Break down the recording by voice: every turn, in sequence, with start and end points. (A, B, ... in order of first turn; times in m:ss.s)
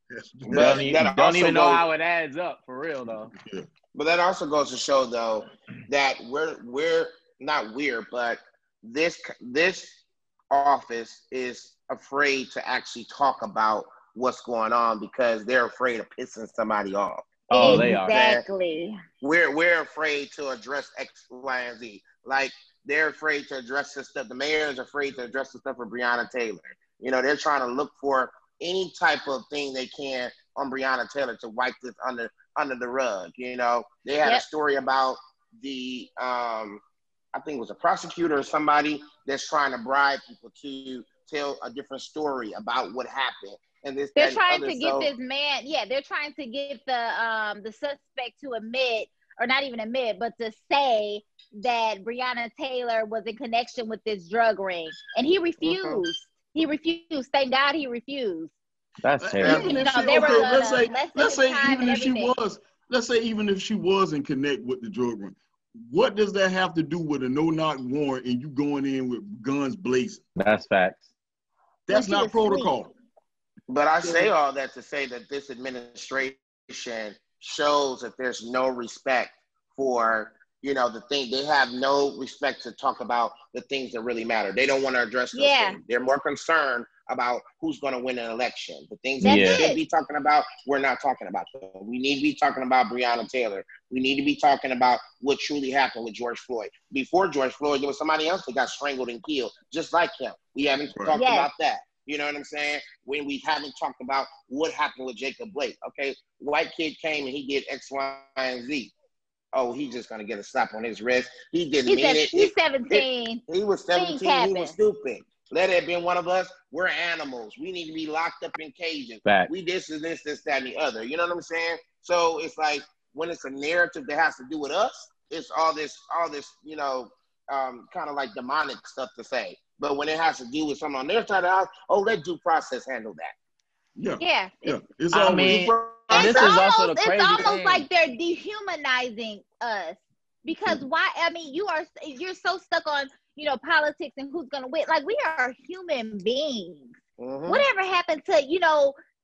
0:00.1-0:01.0 A
0:00.4-0:01.8 B
0:00.5-0:03.3 C
0:03.3-0:03.7 A
0:03.9-0:18.4 B
0:17.5-0:18.1 C
0:17.5-0:19.0 D
0:19.2-0:36.8 B
0:37.3-0:45.1 B
0:44.2-0:58.5 D
0:55.6-0:56.0 B
0:59.0-0:59.8 C
0:59.2-1:10.2 A
0:59.4-1:00.5 B
0:59.5-1:02.4 D
1:10.4-1:11.1 C
1:11.9-1:12.9 A
1:11.9-1:12.7 D
1:13.7-1:48.9 B
1:25.3-1:25.8 D
1:29.2-1:29.6 C
1:29.2-1:29.8 D
1:40.9-1:41.2 A
1:41.1-1:41.5 D
1:49.5-2:13.3 B
1:51.8-1:53.4 D
1:53.9-1:54.7 D
1:59.2-1:59.5 C
2:14.0-2:15.7 A
2:14.2-2:14.8 D
2:15.1-2:17.8 C
2:15.2-2:16.6 B
2:16.1-2:27.0 D
2:27.2-2:27.6 B
2:27.5-2:29.0 D